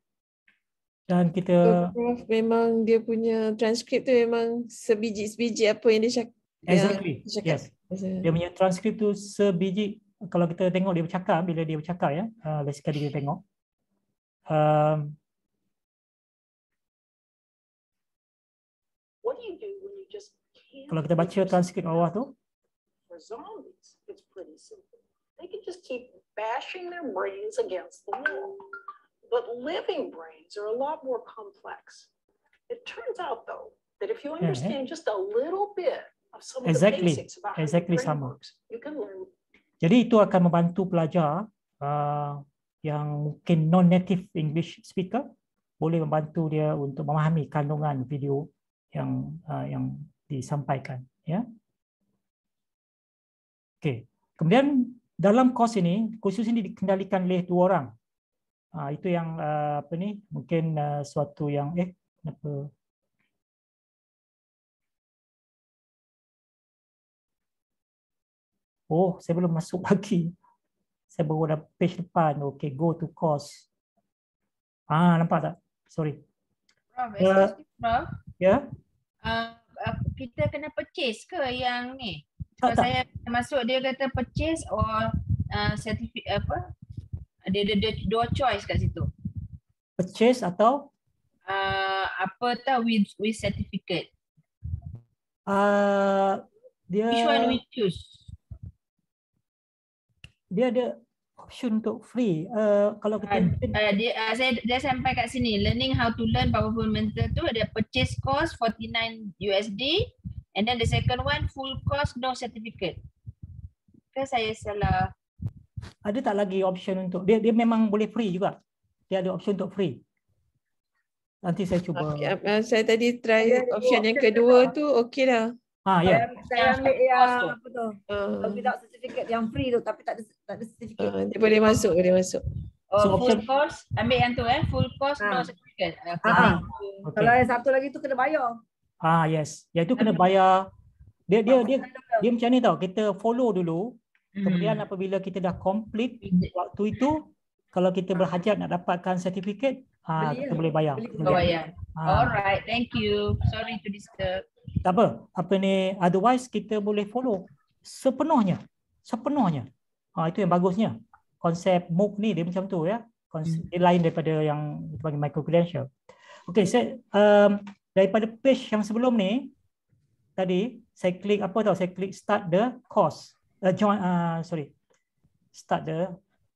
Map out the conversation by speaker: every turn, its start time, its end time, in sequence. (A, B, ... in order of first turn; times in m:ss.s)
0:01.1-0:02.0 A
0:01.6-0:08.3 B
0:06.7-0:07.7 A
0:08.2-0:13.4 A
0:14.5-0:15.2 A
0:19.2-0:22.0 C
0:20.9-0:22.3 A
0:23.1-0:28.6 C
0:29.3-0:32.1 C
0:32.7-0:39.3 C
0:34.4-0:34.8 A
0:36.6-0:38.4 A
0:39.8-0:45.2 A
0:45.8-0:51.4 A
0:53.8-0:57.9 A
0:58.8-1:02.7 A
1:08.9-1:10.3 A
1:11.1-1:13.7 A
1:14.9-1:16.2 A
1:17.0-1:18.1 D
1:17.2-1:17.6 A
1:19.2-1:26.6 D
1:22.6-1:22.9 A
1:27.5-1:29.1 D
1:30.0-1:30.9 A
1:31.5-1:34.1 D
1:35.5-1:37.6 A
1:37.1-1:38.2 D
1:40.5-1:43.8 A
1:43.2-1:53.0 D
1:54.1-1:55.1 D
1:56.0-1:58.6 A
1:59.1-2:00.0 A
2:01.4-2:02.4 A
2:02.0-2:05.6 B
2:03.4-2:04.8 E
2:05.9-2:06.4 A
2:06.1-2:11.2 E
2:06.5-2:07.5 D
2:08.1-2:08.7 B
2:11.0-2:12.4 B
2:12.9-2:17.1 D
2:13.0-2:13.5 A
2:15.2-2:15.5 E
2:16.3-2:16.6 E
2:17.0-2:17.4 A
2:17.2-2:18.5 E
2:19.0-2:20.7 A
2:21.3-2:32.4 A
2:21.9-2:22.2 E
2:24.4-2:24.8 D
2:26.2-2:26.5 D
2:30.2-2:31.5 E
2:31.2-2:34.4 D
2:34.8-2:45.9 A
2:46.5-2:49.5 A
2:50.4-2:54.7 A
2:55.5-2:56.2 A